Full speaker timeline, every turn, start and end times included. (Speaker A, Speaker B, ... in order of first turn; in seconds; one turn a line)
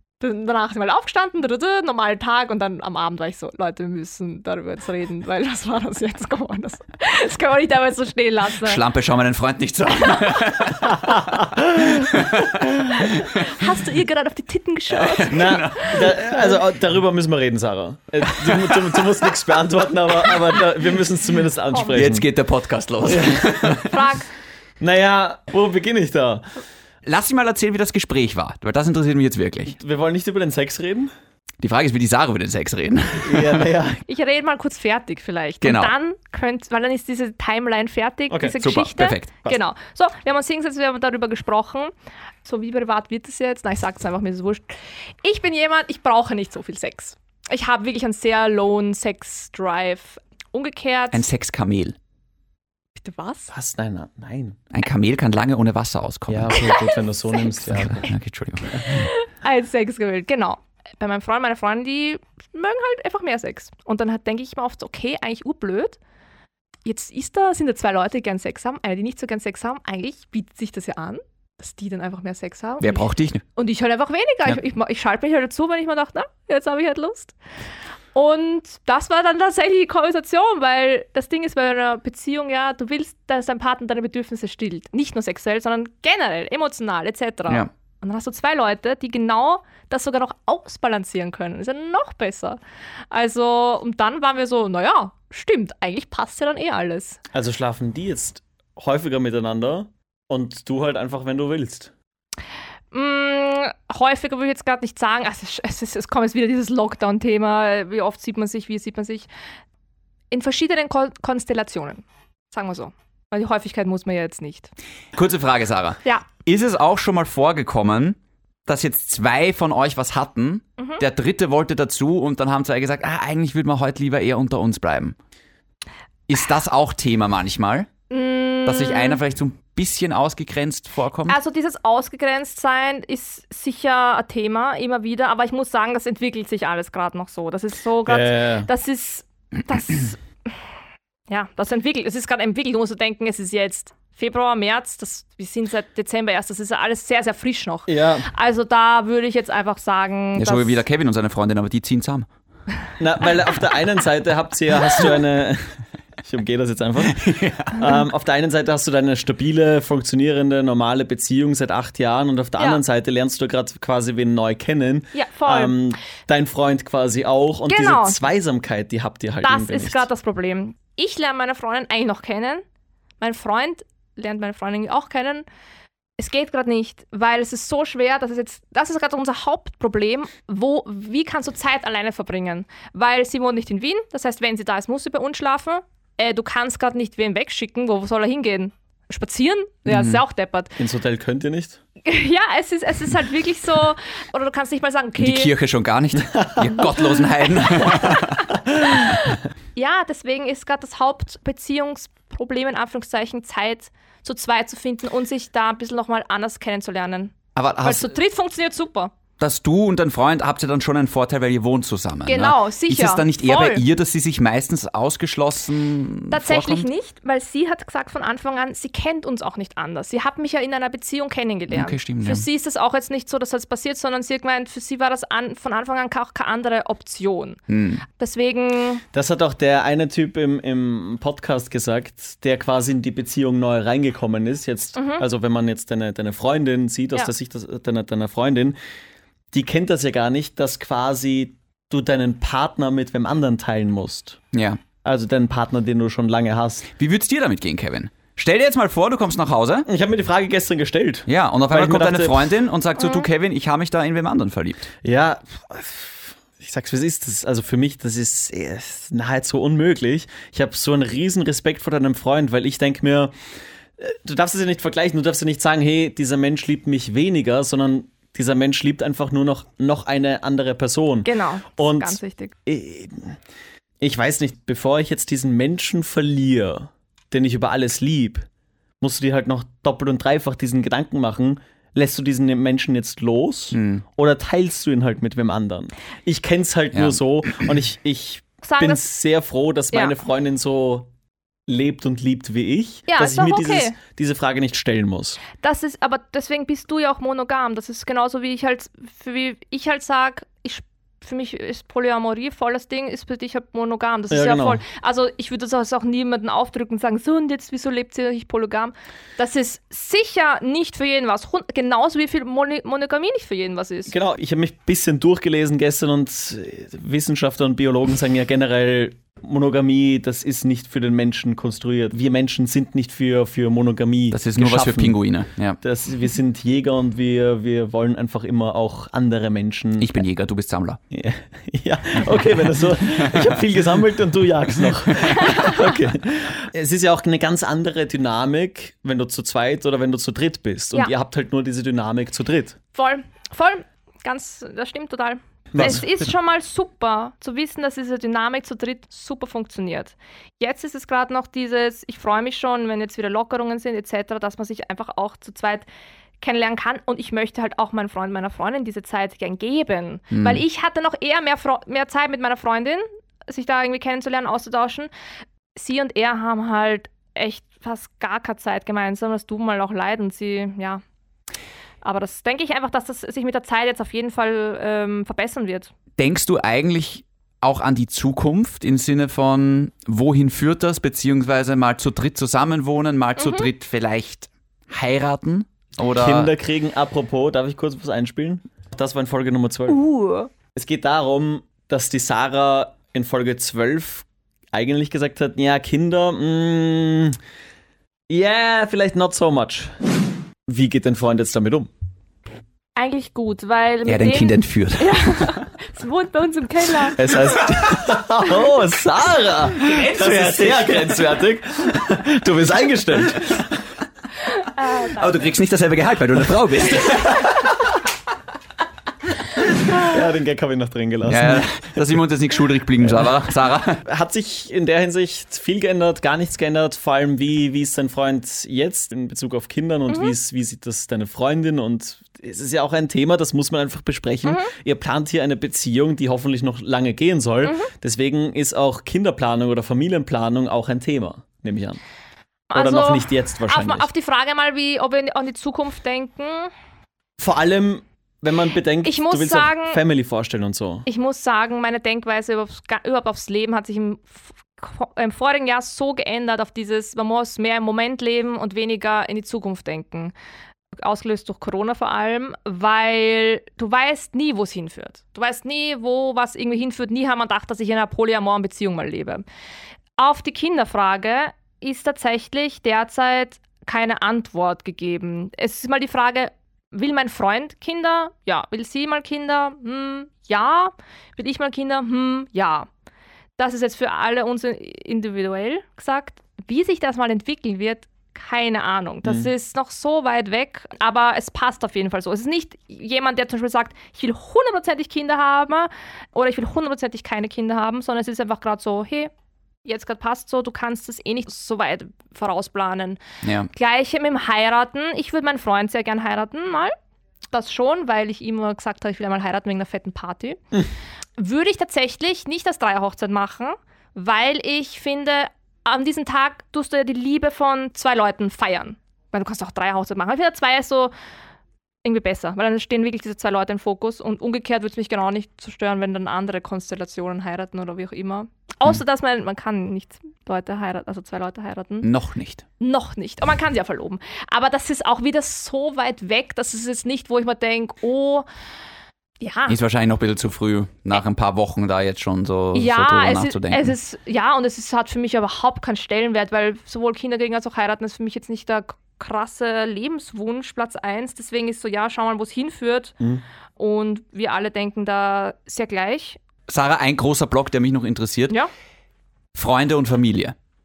Speaker A: 0.2-8.8
Speaker B: 8.6-13.3
Speaker C: 11.1-11.8
Speaker A: 13.3-16.5
Speaker B: 14.9-16.2
Speaker C: 15.3-22.3
Speaker B: 18.4-18.8
Speaker A: 21.7-22.0
Speaker B: 21.9-23.9
Speaker C: 23.0-23.9
Speaker A: 23.9-24.3
Speaker C: 24.8-26.5
Speaker B: 27.0-29.8
Speaker C: 29.7-31.1
Speaker B: 31.6-33.7
Speaker C: 33.2-34.0
Speaker A: 34.0-41.9
Speaker B: 35.6-35.9
Speaker C: 38.3-38.6
Speaker B: 38.6-39.3
Speaker A: 42.4-51.2
Speaker B: 51.1-52.0
Speaker A: 53.0-53.5
Speaker C: 53.5-54.6
Speaker B: 54.7-56.8
Speaker C: 56.3-58.1
Speaker A: 56.6-56.9
Speaker B: 57.6-59.1
Speaker A: 58.8-66.0
Speaker A: 66.8-77.3
Speaker B: 72.8-73.4
Speaker A: 78.1-92.6
Speaker A: 93.1-97.2
Speaker C: 97.3-101.9
Speaker A: 102.9-109.3
Speaker A: 110.3-114.7
Speaker B: 115.1-125.2
Speaker A: 120.8-121.0
Speaker B: 126.3-127.9
Speaker A: 128.1-129.2
Speaker B: 128.7-131.4
Speaker A: 131.3-140.5
Speaker C: 138.1-138.7
Speaker A: 141.3-150.8
Speaker C: 147.9-148.3
Speaker B: 150.3-152.3
Speaker C: 153.0-155.7
Speaker C: 156.2-170.1
Speaker B: 157.2-157.8
Speaker A: 165.1-165.8
Speaker A: 167.7-168.2
Speaker A: 169.4-172.6
Speaker A: 173.2-175.4
Speaker A: 176.2-190.8
Speaker B: 189.9-190.2
Speaker C: 190.8-191.8
Speaker A: 192.0-195.5
Speaker B: 195.2-198.5
Speaker C: 196.4-196.7
Speaker A: 197.8-198.2
Speaker A: 199.0-209.1
Speaker B: 207.5-208.1
Speaker B: 209.4-216.9
Speaker A: 212.2-213.8
Speaker A: 216.3-229.0
Speaker B: 221.7-222.4
Speaker B: 227.7-228.0
Speaker C: 229.1-238.8
Speaker A: 234.9-235.2
Speaker C: 239.5-244.4
Speaker B: 244.5-244.8
Speaker C: 245.0-246.9
Speaker B: 246.9-249.9
Speaker C: 249.9-252.5
Speaker B: 251.3-254.9
Speaker C: 255.0-263.3
Speaker C: 264.0-273.4
Speaker A: 271.2-272.5
Speaker C: 274.0-278.4
Speaker C: 279.0-291.1
Speaker B: 283.7-284.0
Speaker B: 286.9-287.2
Speaker A: 288.6-289.0
Speaker C: 291.7-295.4
Speaker A: 293.1-293.9
Speaker A: 295.6-314.1
Speaker C: 304.3-304.8
Speaker C: 314.1-325.2
Speaker B: 324.3-325.8
Speaker C: 325.8-330.1
Speaker B: 330.0-331.0
Speaker C: 331.1-342.8
Speaker B: 332.3-333.6
Speaker B: 335.1-335.5
Speaker A: 335.4-335.8
Speaker A: 342.9-355.9
Speaker C: 345.7-346.1
Speaker A: 356.4-365.1
Speaker B: 360.3-360.6
Speaker A: 365.7-371.0
Speaker A: 372.0-375.9
Speaker B: 376.2-386.5
Speaker A: 383.4-383.7
Speaker C: 386.1-390.0
Speaker A: 389.9-390.5
Speaker C: 390.7-397.4
Speaker C: 398.3-399.9
Speaker C: 400.7-401.9
Speaker A: 402.9-407.2
Speaker B: 404.1-405.6
Speaker C: 407.1-413.7
Speaker B: 409.8-411.2
Speaker A: 414.7-415.5
Speaker B: 415.1-417.7
Speaker C: 419.9-422.2
Speaker B: 421.2-424.0
Speaker C: 423.0-423.3
Speaker C: 424.0-442.0
Speaker A: 430.1-430.3
Speaker A: 434.4-434.7
Speaker A: 437.6-437.9
Speaker A: 442.7-446.7
Speaker C: 442.7-444.1
Speaker C: 447.4-451.1
Speaker A: 449.0-450.0
Speaker A: 451.1-460.3
Speaker A: 461.0-469.4
Speaker A: 470.2-482.9
Speaker A: 483.6-499.3
Speaker A: 499.8-503.2
Speaker B: 503.4-503.7
Speaker A: 503.7-506.9
Speaker A: 507.5-510.6
Speaker A: 511.4-521.1
Speaker A: 522.0-532.1
Speaker B: 532.0-532.6
Speaker A: 532.8-538.5
Speaker A: 539.4-539.8
Speaker B: 539.7-543.9
Speaker A: 542.7-553.2
Speaker A: 553.8-556.4
Speaker B: 556.7-558.6
Speaker B: 559.5-560.5